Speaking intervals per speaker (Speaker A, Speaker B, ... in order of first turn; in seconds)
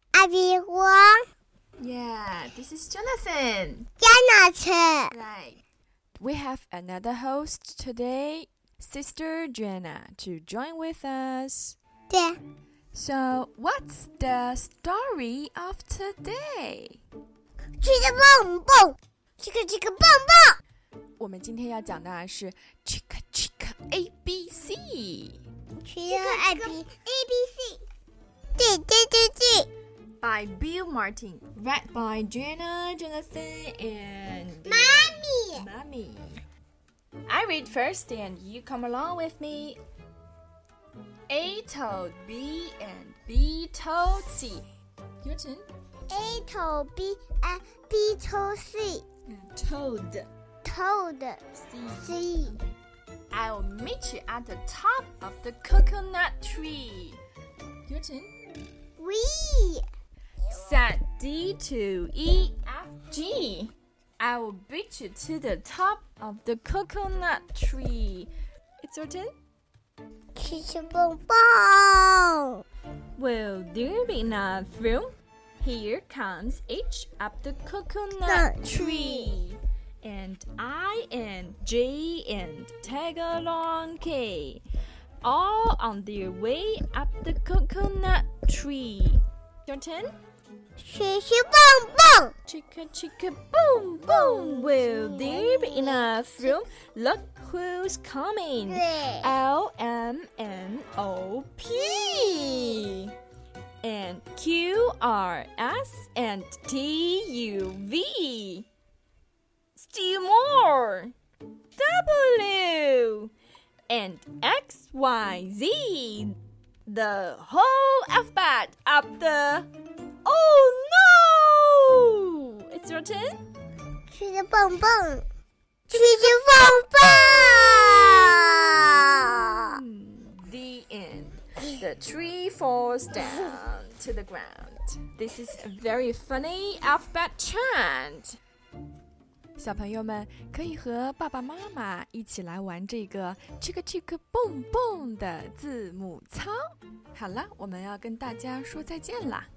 Speaker A: 0.1-1.3, 4.0-5.1, 12.1-12.4, 17.8-20.6, 25.8-27.8, 28.6-29.7, 34.6-35.6, 46.1-49.0, 50.6-51.4, 52.0-52.6, 59.0-59.8, 70.3-72.6, 78.2-79.3, 90.8-92.3, 94.0-96.6, 98.6-99.3, 101.8-102.7, 124.1-125.2, 125.9-129.7
Speaker B: 1.8-3.9, 5.1-5.6, 6.2-11.8, 12.9-17.0, 21.2-25.4, 26.1-26.8, 30.2-36.4, 37.3-39.8, 41.3-44.6, 45.2-45.6, 49.2-50.3, 51.5-52.7, 53.3-57.2, 57.9-58.3, 60.5-68.3, 68.8-69.3, 73.2-84.6, 85.2-90.1, 92.5-103.1, 103.8-108.7, 109.7-111.1, 111.8-113.3, 113.9-116.3, 116.8-119.7, 120.2-123.4, 125.9-126.9, 129.6-138.4, 139.6-146.6, 147.1-149.5